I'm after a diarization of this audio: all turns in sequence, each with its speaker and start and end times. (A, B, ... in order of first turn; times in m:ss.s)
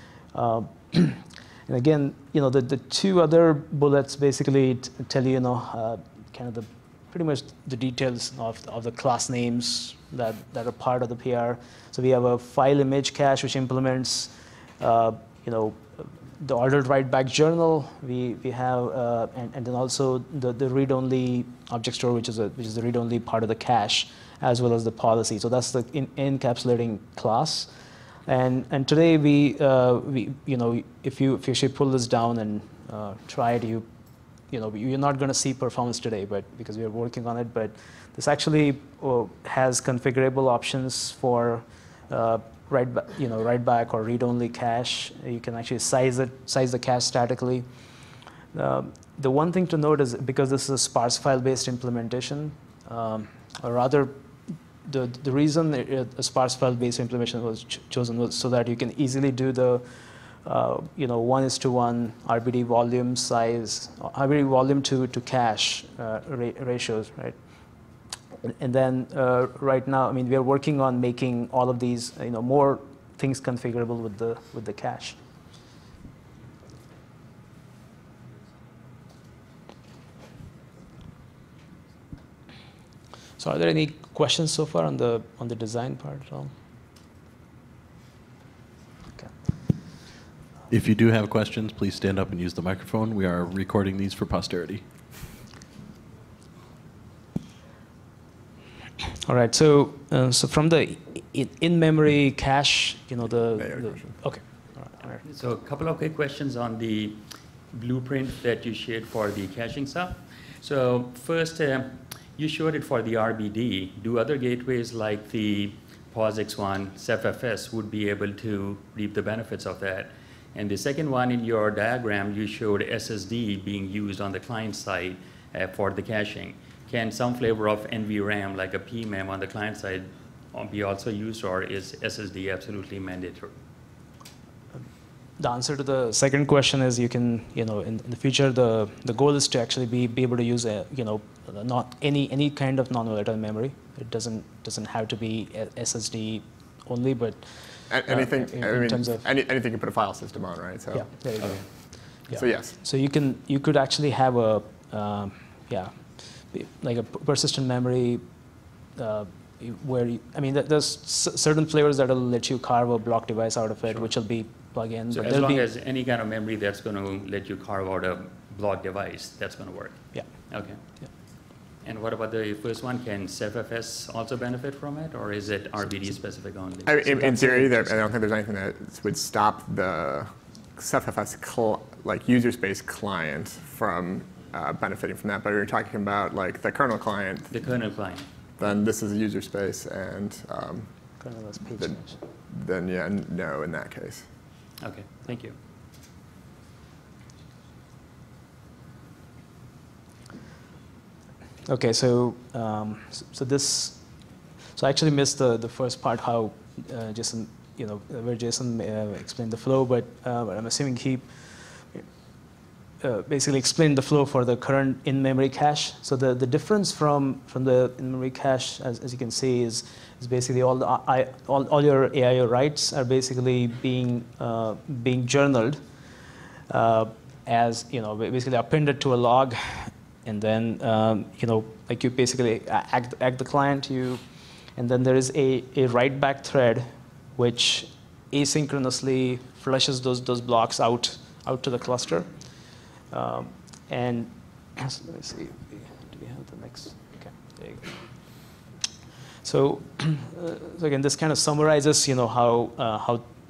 0:00.3-0:15.8 A
0:16.4-0:27.7 A
0:28.3-0:33.9 A
0:34.5-0:47.6 A
0:48.5-0:54.1 A
0:54.8-0:59.8 A
1:00.4-1:07.4 A
1:08.4-1:15.2 A
1:23.4-1:26.5 A
1:30.7-1:34.8 B
1:39.2-1:45.2 A
1:43.6-1:44.1 C
1:45.2-2:13.5 D
2:15.4-2:29.2 A
2:27.9-2:31.6 C
2:30.9-2:38.2 A
2:32.3-2:32.7 C
2:39.0-2:45.6 A
2:45.1-2:50.8 D
2:51.8-2:57.7 D
2:56.8-3:07.6 C
2:57.1-2:57.8 A
3:07.5-3:08.3 D
3:08.6-3:10.9 C
3:11.2-3:12.2 A
3:11.8-3:14.3 C
3:14.8-3:15.6 D
3:21.7-3:24.0 A
3:24.8-3:31.3 A
3:31.8-3:32.0 A
3:33.0-3:45.8 A
3:46.7-3:54.2 A
3:54.8-4:02.3 A
4:03.1-4:08.0 A
4:09.4-4:13.2 A